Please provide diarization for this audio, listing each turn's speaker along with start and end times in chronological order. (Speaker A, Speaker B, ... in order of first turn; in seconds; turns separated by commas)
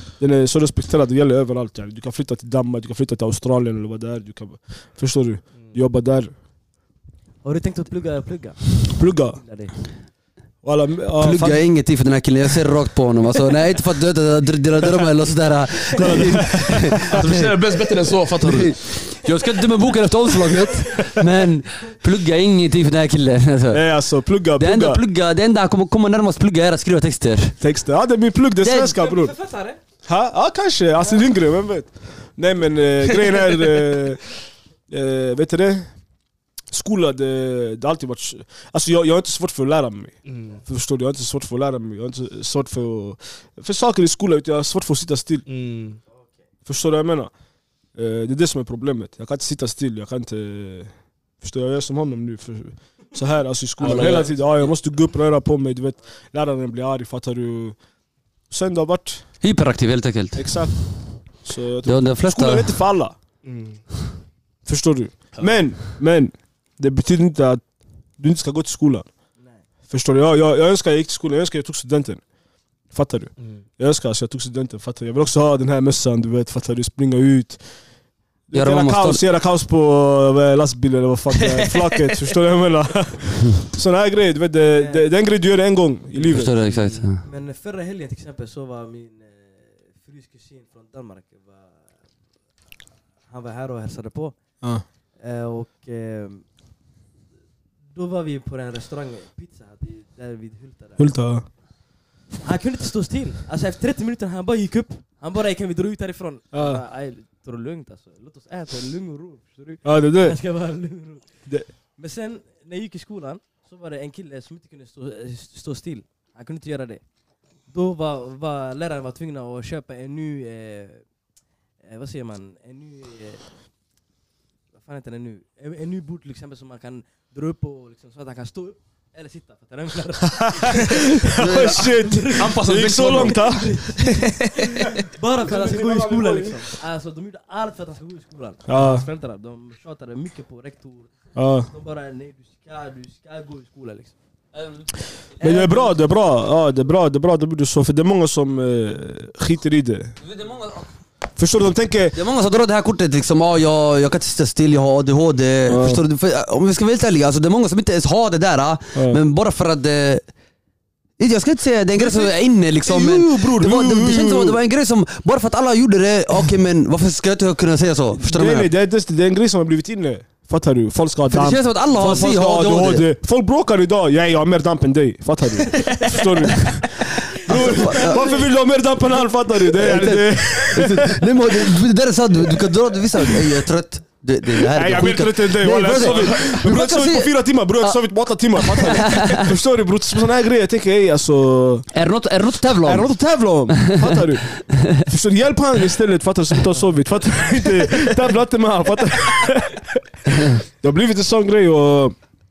Speaker A: 0.2-6.3, Speaker B: 7.4-9.7, Speaker A: 8.9-9.4, Speaker A: 10.6-11.6, Speaker C: 11.2-17.7, Speaker A: 15.9-17.0, Speaker D: 16.9-18.8, Speaker C: 18.4-23.8, Speaker B: 20.5-21.1, Speaker A: 23.7-25.0, Speaker C: 24.6-27.6, Speaker A: 27.6-29.3, Speaker B: 28.6-29.8, Speaker A: 30.0-35.9, Speaker A: 36.7-45.4, Speaker D: 40.2-40.6, Speaker D: 45.5-46.0, Speaker A: 46.6-47.3, Speaker A: 47.9-57.8, Speaker D: 53.8-54.7, Speaker A: 58.5-59.2, Speaker C: 59.4-60.6, Speaker A: 60.4-60.8, Speaker A: 61.3-63.1, Speaker C: 61.8-62.7, Speaker D: 63.4-63.8, Speaker A: 64.6-67.6, Speaker A: 68.2-69.1, Speaker A: 69.9-72.2, Speaker A: 72.9-77.6, Speaker A: 78.5-86.6, Speaker C: 78.5-79.2, Speaker D: 81.4-82.2, Speaker B: 84.7-85.1, Speaker C: 86.2-87.2, Speaker D: 86.6-87.0, Speaker B: 87.2-91.9, Speaker B: 93.3-94.3, Speaker B: 95.2-96.4, Speaker B: 97.9-101.1, Speaker A: 101.0-101.4, Speaker B: 102.4-117.0, Speaker A: 106.5-106.8, Speaker A: 109.8-110.4, Speaker B: 117.7-121.1, Speaker B: 121.8-123.5, Speaker B: 124.7-141.1, Speaker A: 130.4-133.8, Speaker D: 131.4-134.6, Speaker A: 135.4-136.7, Speaker A: 138.7-139.1, Speaker A: 141.3-141.7, Speaker B: 141.6-144.1, Speaker B: 145.4-146.0, Speaker A: 145.4-150.2, Speaker C: 150.2-150.9, Speaker A: 151.3-152.2, Speaker C: 152.1-160.2, Speaker A: 155.7-156.0, Speaker A: 158.9-159.2, Speaker C: 161.2-168.7, Speaker A: 161.9-164.6, Speaker A: 168.2-181.7, Speaker C: 171.3-173.1, Speaker B: 176.0-176.2, Speaker C: 177.3-178.4, Speaker B: 177.5-178.4, Speaker C: 179.7-188.0, Speaker A: 184.6-191.9, Speaker D: 185.9-186.3, Speaker C: 188.6-189.5, Speaker C: 191.9-193.1, Speaker A: 192.8-202.2, Speaker C: 193.7-195.0